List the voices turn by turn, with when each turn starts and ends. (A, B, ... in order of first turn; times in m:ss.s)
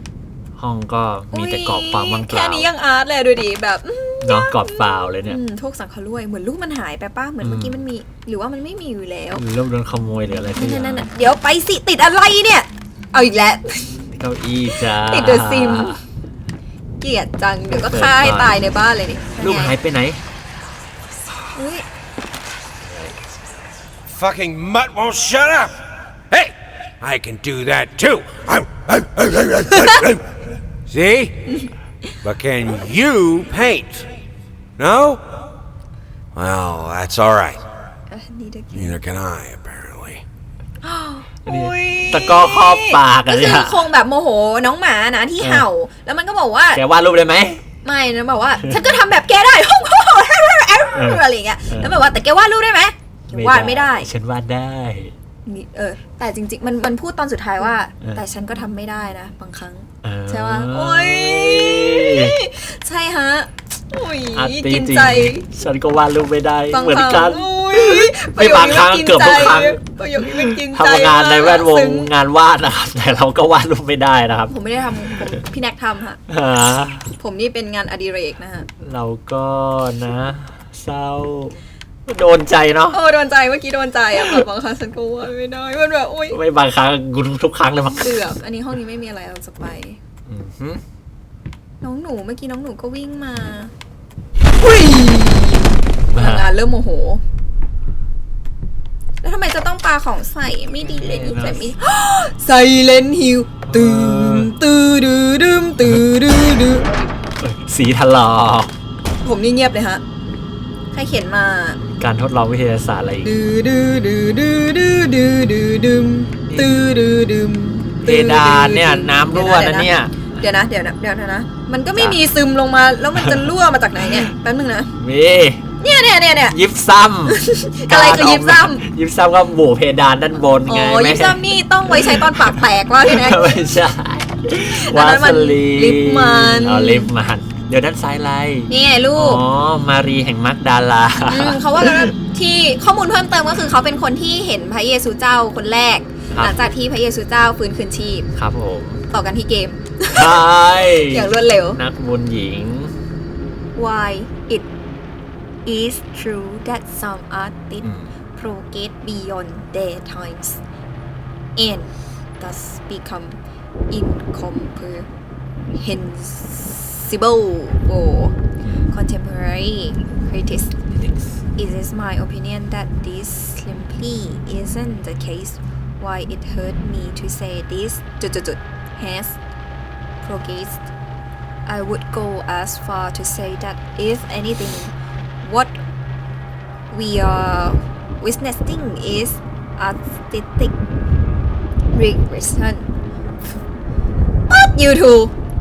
0:00.6-0:02.7 A
0:01.3-0:09.4 B
0:04.2-0:05.4 A
0:07.4-0:07.8 A
0:09.3-0:11.1 A
0:10.6-0:14.0 B
0:14.1-0:16.0 A
0:14.8-0:15.9 B
0:17.0-0:19.7 B
0:17.7-0:18.5 A
0:19.4-0:20.2 A
0:21.5-0:21.8 B
0:22.8-0:23.2 A
0:24.1-0:25.8 C
0:26.3-0:31.6 C
0:32.2-0:34.1 C
0:34.8-0:35.3 C
0:36.3-0:37.6 C
0:38.1-0:39.0 B
0:38.7-0:40.2 C
0:40.8-0:46.8 B
0:41.4-0:43.8 A
0:45.4-0:45.6 A
0:46.7-0:47.6 A
0:47.8-0:54.1 B
0:50.9-0:51.9 A
0:53.3-0:55.1 A
0:55.4-1:05.4 B
1:00.0-1:02.4 A
1:04.3-1:14.5 A
1:06.7-1:12.1 B
1:14.5-1:16.2 B
1:15.1-1:15.4 A
1:16.3-1:17.1 A
1:17.2-1:18.7 B
1:18.8-1:23.0 A
1:22.9-1:26.4 B
1:24.2-1:24.4 A
1:26.3-1:28.3 A
1:28.0-1:30.0 B
1:30.2-1:30.8 A
1:31.8-1:33.7 B
1:34.6-1:37.2 B
1:36.1-1:36.5 A
1:39.2-1:47.1 B
1:40.8-1:41.7 A
1:43.6-1:44.5 A
1:47.4-1:48.7 A
1:49.2-1:50.0 B
1:50.9-1:51.8 B
1:51.8-1:53.3 A
1:53.2-2:04.9 B
1:56.4-1:56.7 A
1:58.0-2:00.4 A
2:03.2-2:04.3 A
2:05.0-2:05.7 A
2:05.8-2:06.6 B
2:06.5-2:22.1 A
2:07.3-2:08.8 B
2:10.7-2:13.6 B
2:14.5-2:17.1 B
2:18.7-2:19.4 B
2:21.3-2:28.3 B
2:28.3-2:29.0 A
2:29.1-2:31.8 B
2:30.1-2:32.9 A
2:33.7-2:34.6 B
2:35.6-2:40.6 B
2:37.8-2:38.1 A
2:41.6-2:43.4 B
2:43.9-2:45.1 B
2:45.8-2:48.3 B
2:48.9-2:50.7 B
2:50.9-2:51.4 A
2:51.6-2:59.4 B
3:00.2-3:00.8 B
3:01.6-3:05.8 B
3:06.9-3:10.7 B
3:11.9-3:12.9 B
3:14.5-3:15.3 B